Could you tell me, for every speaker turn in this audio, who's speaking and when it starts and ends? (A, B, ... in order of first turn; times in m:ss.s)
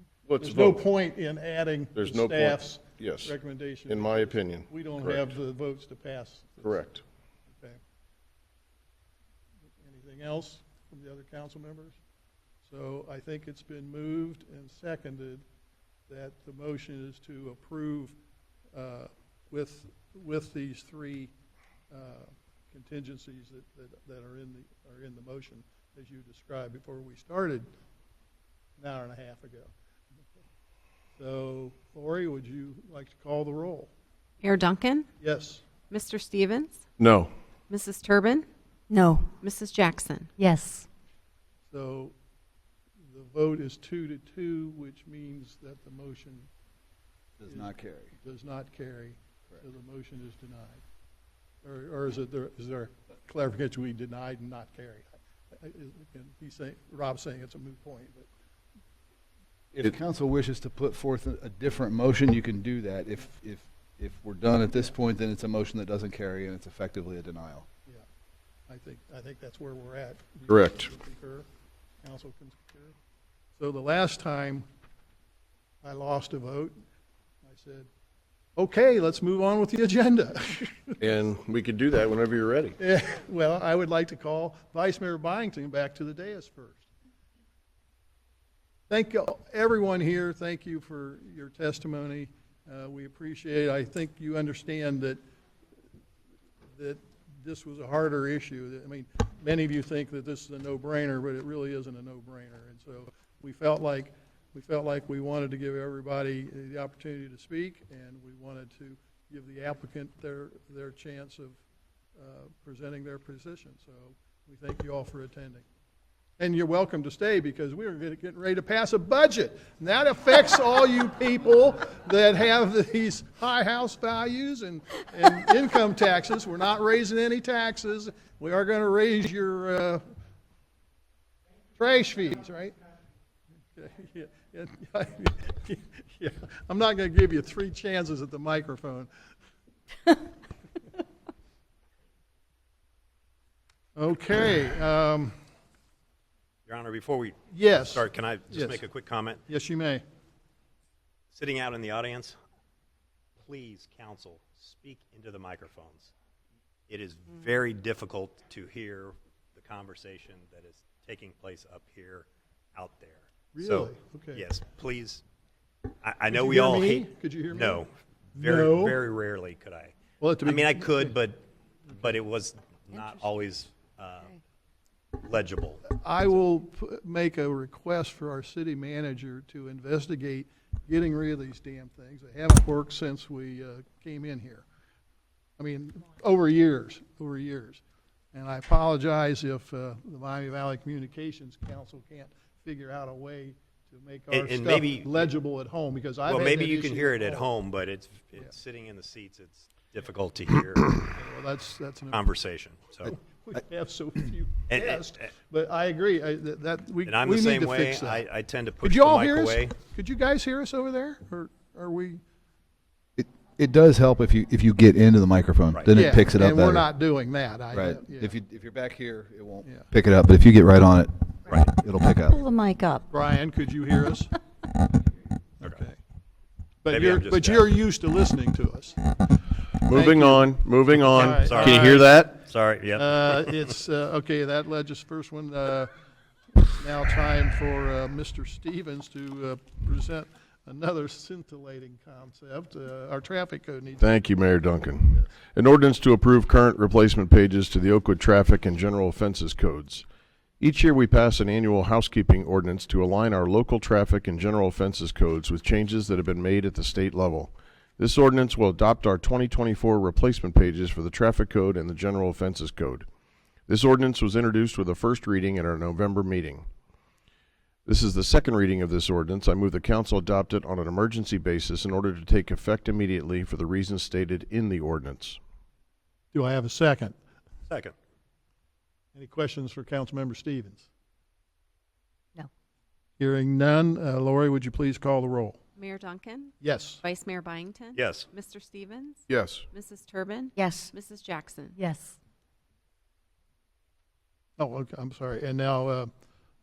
0:00.3-0:00.8 A
0:00.4-0:06.9 B
0:01.9-0:03.3 A
0:03.8-0:05.4 A
0:06.6-0:07.0 A
0:07.5-0:07.8 B
0:09.8-0:12.0 B
0:12.6-0:15.4 B
0:16.1-0:18.2 B
0:18.7-0:21.3 B
0:21.9-0:27.6 B
0:28.8-0:29.7 B
0:31.2-0:33.9 B
0:34.4-0:35.1 C
0:35.2-0:35.6 B
0:35.9-0:36.8 C
0:37.0-0:37.3 A
0:37.7-0:38.5 C
0:38.9-0:39.4 D
0:39.4-0:40.3 C
0:40.4-0:40.9 D
0:41.7-0:42.1 B
0:43.0-0:46.5 B
0:47.4-0:48.1 E
0:47.5-0:50.8 B
0:51.6-0:58.3 B
0:59.7-1:07.7 E
1:08.7-1:11.5 B
1:10.5-1:10.9 A
1:12.0-1:13.0 B
1:13.6-1:14.6 B
1:15.8-1:16.7 B
1:17.4-1:17.9 B
1:18.6-1:21.0 B
1:21.0-1:22.8 A
1:22.8-1:26.9 B
1:28.9-1:35.2 B
1:36.8-1:51.6 B
1:52.2-1:55.6 B
1:56.4-2:10.0 B
2:11.8-2:12.7 B
2:13.7-2:19.1 B
2:24.0-2:25.3 B
2:26.6-2:29.4 F
2:27.5-2:28.8 B
2:29.5-2:30.0 B
2:31.3-2:32.4 F
2:33.4-2:36.1 F
2:36.9-2:45.2 F
2:43.5-2:44.4 B
2:46.0-2:54.3 F
2:46.3-2:49.0 B
2:50.2-2:51.1 B
2:52.9-2:53.2 D
2:55.2-2:56.0 F
2:55.9-3:04.6 B
3:05.6-3:07.8 B
3:08.3-3:17.5 B
3:14.3-3:15.3 F
3:16.3-3:21.1 F
3:21.0-3:22.2 B
3:22.1-3:23.1 F
3:23.0-3:28.2 B
3:24.7-3:25.3 F
3:27.0-3:29.7 F
3:28.8-3:32.2 B
3:33.2-3:36.9 E
3:35.9-3:38.3 B
3:37.7-3:42.4 E
3:42.3-3:43.0 D
3:43.1-3:44.3 B
3:45.6-3:46.0 B
3:46.8-3:49.0 B
3:46.9-3:47.7 F
3:49.8-3:52.3 A
3:49.9-3:55.9 B
3:51.4-3:53.6 F
3:56.6-4:05.3 B
4:04.0-4:10.0 A
4:10.6-4:23.1 A
4:23.7-4:26.7 A
4:27.8-4:35.4 A
4:36.3-4:37.2 B
4:37.7-4:37.9 F
4:39.1-4:40.9 B
4:43.2-4:45.6 B
4:45.8-4:51.8 C
4:46.6-4:47.0 B
4:48.0-4:48.3 F
4:49.3-4:49.6 A
4:50.5-4:50.9 D
4:51.7-4:52.2 D
4:54.6-4:56.1 B